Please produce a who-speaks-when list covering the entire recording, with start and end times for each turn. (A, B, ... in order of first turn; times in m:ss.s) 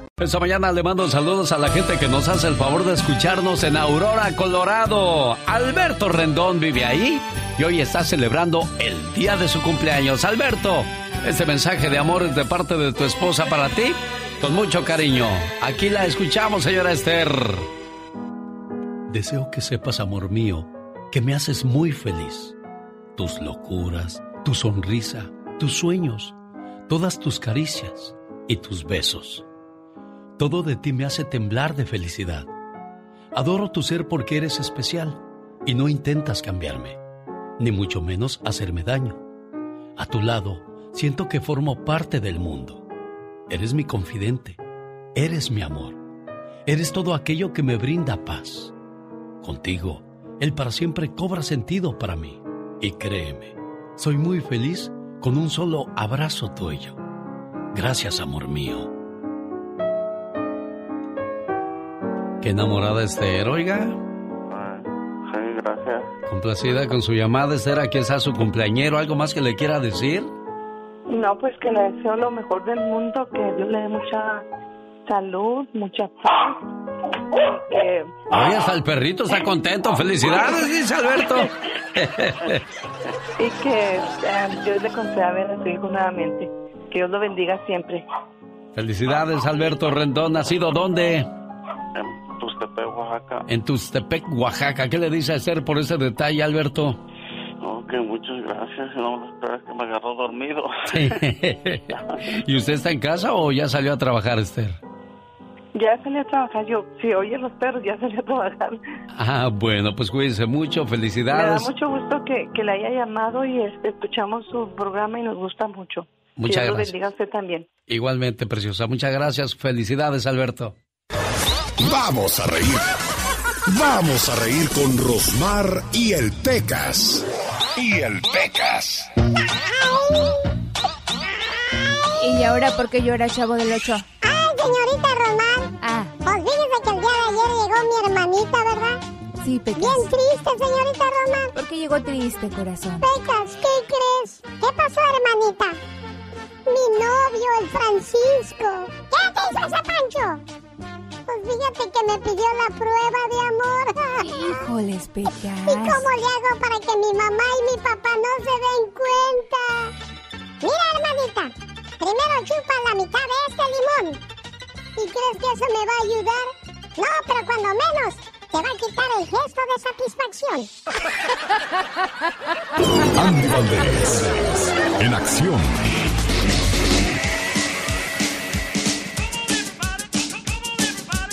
0:00.2-0:17.7 A
0:19.1-0:22.6 A
0:23.2-0:26.3 A
0:26.9-0:29.4 A
0:30.4-0:32.5 A
0:33.3-0:37.0 A
0:37.6-0:39.2 A
0:40.0-0:42.8 A
0:43.5-0:44.6 A
0:45.2-0:46.0 A
0:46.7-0:48.7 A
0:49.4-0:57.0 A
0:57.7-0:58.9 A
1:02.4-1:04.0 A
1:04.5-1:06.1 B
1:06.3-1:10.3 A
1:11.1-1:14.4 C
1:15.1-1:16.6 C
1:17.6-1:18.2 C
1:18.3-1:22.6 A
1:23.4-1:28.1 C
1:28.8-1:31.3 A
1:32.0-1:33.4 B
1:33.5-1:37.0 A
1:37.6-1:41.2 B
1:40.9-1:44.8 A
1:45.8-1:48.8 C
1:49.1-1:51.7 A
1:51.3-1:57.7 C
1:56.4-1:57.0 A
1:57.9-2:00.8 A
2:01.8-2:02.8 D
2:03.7-2:07.2 D
2:07.8-2:09.1 D
2:09.7-2:10.3 E
2:12.2-2:14.1 F
2:14.2-2:15.7 E
2:15.8-2:16.1 F
2:16.2-2:19.0 E
2:19.4-2:20.1 F
2:19.8-2:21.5 E
2:21.6-2:23.1 F
2:23.0-2:25.8 E
2:26.7-2:30.4 E
2:31.3-2:34.7 E
2:34.2-2:36.1 F
2:35.3-2:39.9 E
2:40.6-2:44.2 E
2:45.0-2:50.7 E
2:53.1-2:55.8 D